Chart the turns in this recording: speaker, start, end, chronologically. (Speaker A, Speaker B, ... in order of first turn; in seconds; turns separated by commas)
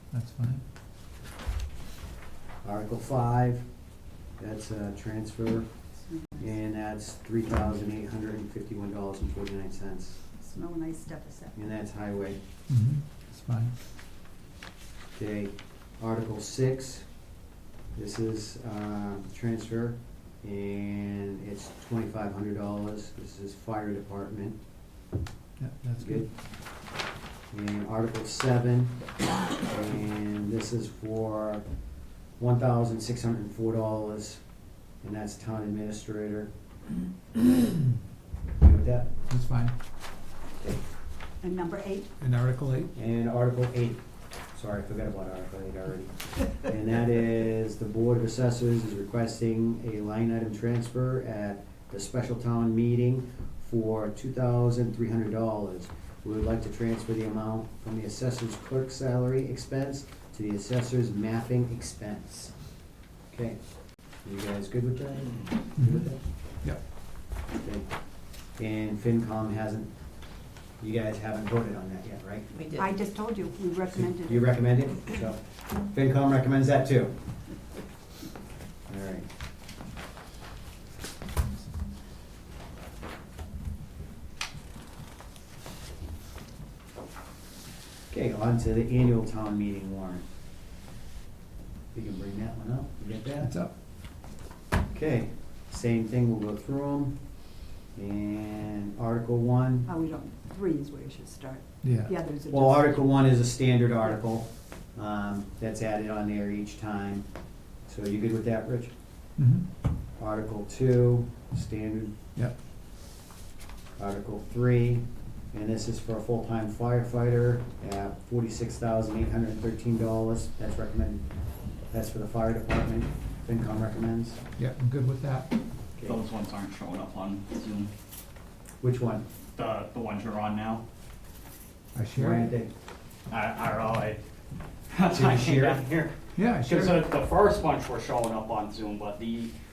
Speaker A: 0.1-0.6, Speaker B: 2.6-3.6, Speaker B: 4.4-5.7, Speaker C: 6.1-6.5, Speaker B: 6.4-10.2, Speaker C: 10.4-11.5, Speaker B: 11.5-12.4, Speaker A: 12.7-13.7, Speaker B: 15.1-17.1, Speaker B: 17.9-24.6, Speaker A: 25.6-26.2, Speaker B: 27.5-29.0, Speaker B: 29.6-31.6, Speaker B: 32.4-34.4, Speaker B: 35.0-36.5, Speaker B: 38.6-39.1, Speaker A: 39.3-39.7, Speaker C: 41.4-42.1, Speaker A: 42.2-42.9, Speaker B: 42.9-44.0, Speaker B: 44.5-62.5, Speaker B: 63.3-63.6, Speaker B: 64.2-66.2, Speaker B: 67.6-67.9, Speaker B: 68.5-69.9, Speaker B: 70.8-72.6, Speaker C: 72.7-74.5, Speaker B: 74.1-77.1, Speaker B: 78.9-79.3, Speaker B: 88.1-90.2, Speaker B: 91.9-93.5, Speaker A: 93.4-93.7, Speaker B: 94.9-97.2, Speaker B: 97.9-99.9, Speaker C: 99.9-103.0, Speaker A: 101.8-102.1, Speaker B: 102.5-107.2, Speaker B: 107.9-108.9, Speaker A: 109.4-109.6, Speaker B: 110.2-112.1, Speaker B: 114.0-121.2, Speaker B: 121.9-124.4, Speaker A: 124.6-125.5, Speaker D: 126.0-127.9, Speaker B: 128.8-129.2, Speaker D: 129.6-130.8, Speaker A: 131.9-132.5, Speaker B: 132.1-132.7, Speaker D: 133.3-134.2, Speaker D: 134.9-136.1, Speaker B: 135.1-136.1, Speaker A: 136.3-137.0, Speaker D: 136.6-139.5